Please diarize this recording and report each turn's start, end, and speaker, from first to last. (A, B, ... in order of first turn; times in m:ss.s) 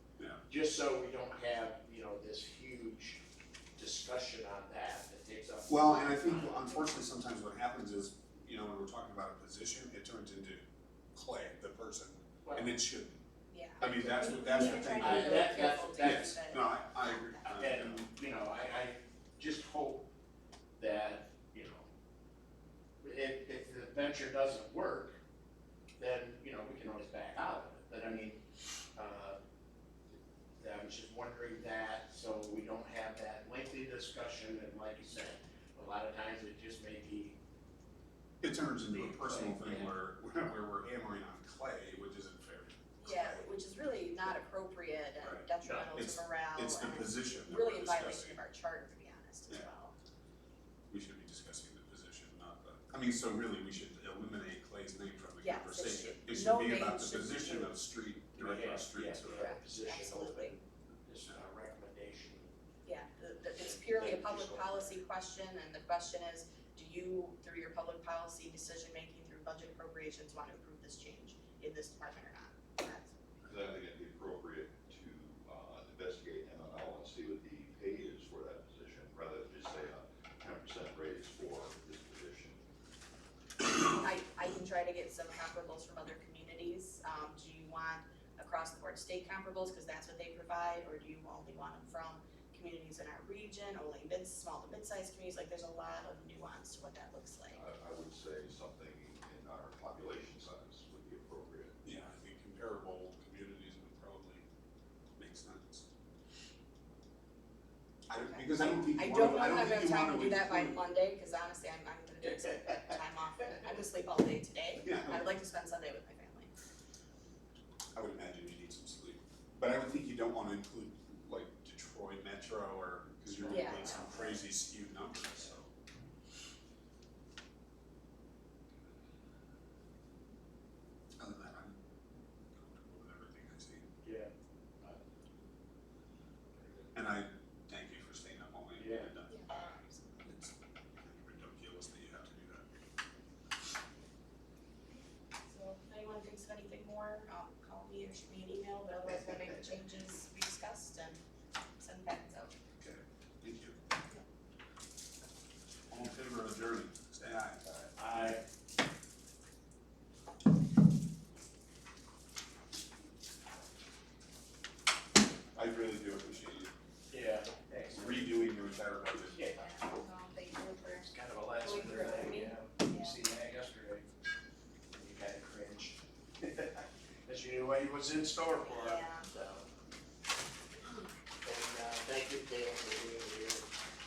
0:00.5-0:03.2 A
0:03.8-0:06.6 A
0:05.7-0:10.6 B
0:11.1-0:13.2 B
0:12.4-0:12.7 A
0:13.5-0:17.5 C
0:13.8-0:18.0 B
0:13.8-0:16.4 A
0:17.4-0:20.1 A
0:20.8-0:21.9 A
0:23.0-0:25.2 A
0:26.0-0:28.4 A
0:29.0-0:29.4 A
0:30.6-0:37.4 A
0:38.4-0:43.4 B
0:38.9-0:39.9 A
0:43.0-0:50.0 C
0:45.2-0:48.4 B
0:45.6-0:45.9 A
0:50.9-0:59.5 B
0:55.4-0:57.7 C
0:58.4-1:02.6 A
0:59.3-1:00.6 C
1:02.8-1:13.2 C
1:03.6-1:05.0 A
1:13.4-1:22.6 D
1:23.9-1:37.6 C
1:37.5-1:41.8 D
1:41.8-1:44.4 B
1:45.2-1:45.9 B
1:48.1-1:50.8 B
1:48.1-1:56.5 C
1:54.8-1:55.2 B
1:57.9-2:05.7 B
2:03.4-2:04.4 A
2:03.5-2:04.0 C
2:11.2-2:11.8 B
2:12.5-2:13.9 B
2:14.0-2:14.3 A
2:16.6-2:16.9 A
2:16.9-2:22.7 B
2:18.8-2:19.1 A
2:19.3-2:19.8 C
2:25.5-2:31.2 C
2:31.8-2:32.6 C
2:32.8-2:33.8 B
2:35.9-2:37.6 B
2:38.0-2:38.4 A
2:45.6-2:46.7 B
2:47.1-2:48.5 A
2:47.9-2:49.4 B
2:49.3-2:49.8 A
2:49.5-2:51.1 C
2:51.0-2:54.1 A
2:51.6-2:53.2 C
2:54.9-2:59.7 A
2:58.6-2:59.3 C
3:01.4-3:03.7 A